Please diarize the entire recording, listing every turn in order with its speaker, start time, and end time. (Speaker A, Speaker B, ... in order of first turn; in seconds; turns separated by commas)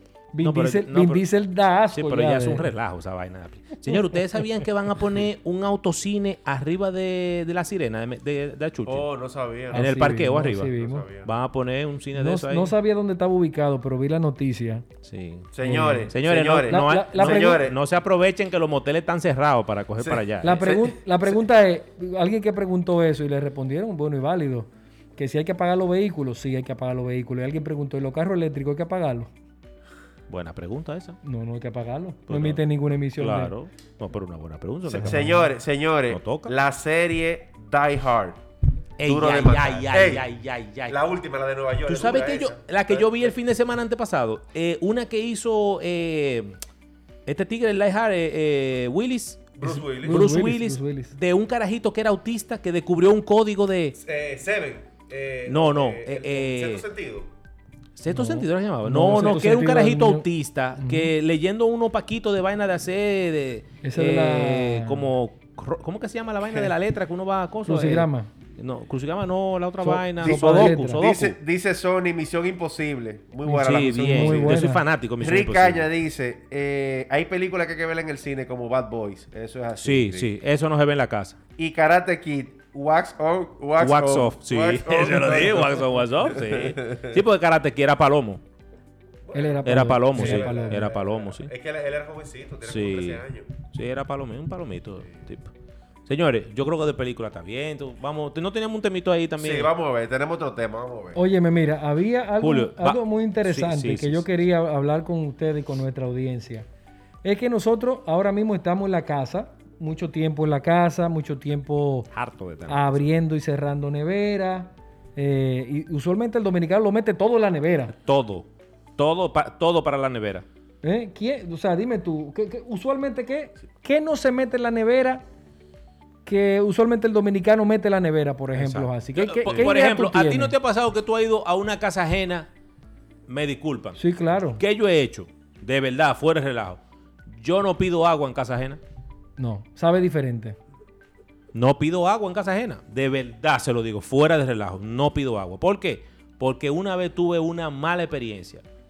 Speaker A: 0.3-2.7, Speaker B: 0.4-1.2, Speaker B: 1.9-9.1, Speaker A: 3.9-4.4, Speaker C: 8.9-9.9, Speaker A: 9.7-11.1, Speaker B: 9.7-12.7, Speaker C: 10.7-11.3, Speaker A: 12.2-14.8, Speaker B: 15.0-15.5, Speaker C: 15.5-17.8, Speaker A: 15.6-16.1, Speaker B: 16.1-20.7, Speaker A: 16.6-17.6, Speaker C: 20.0-21.0, Speaker A: 20.4-29.3, Speaker B: 30.3-31.2, Speaker A: 31.2-33.5, Speaker B: 32.3-32.6, Speaker B: 33.2-35.4, Speaker C: 34.9-38.4, Speaker A: 35.0-35.4, Speaker B: 36.1-36.5, Speaker B: 39.0-41.0, Speaker C: 39.0-40.3, Speaker C: 40.9-43.4, Speaker B: 41.9-46.6, Speaker B: 47.3-54.0, Speaker C: 49.6-50.3, Speaker A: 49.6-51.1, Speaker C: 54.0-57.3, Speaker B: 55.5-56.8, Speaker B: 58.0-71.3, Speaker A: 58.1-60.3, Speaker A: 60.8-61.1, Speaker A: 63.8-65.1, Speaker A: 67.7-68.3, Speaker A: 69.8-71.0, Speaker C: 70.2-80.3, Speaker A: 73.5-74.8, Speaker B: 73.5-75.9, Speaker B: 79.8-81.4, Speaker C: 81.6-87.2, Speaker B: 83.8-88.4, Speaker C: 89.2-93.5, Speaker A: 89.3-90.8, Speaker B: 89.7-91.5, Speaker B: 92.7-95.5, Speaker B: 96.1-99.7, Speaker C: 99.4-101.2, Speaker A: 101.2-106.7, Speaker B: 102.4-104.2, Speaker A: 107.2-112.1, Speaker B: 112.1-113.0, Speaker A: 112.7-117.9, Speaker B: 117.9-120.5, Speaker A: 120.8-125.2, Speaker A: 126.3-130.5, Speaker B: 128.5-132.5, Speaker B: 133.3-134.0, Speaker A: 134.0-134.6, Speaker B: 134.6-138.8, Speaker A: 139.4-140.6, Speaker B: 141.5-148.6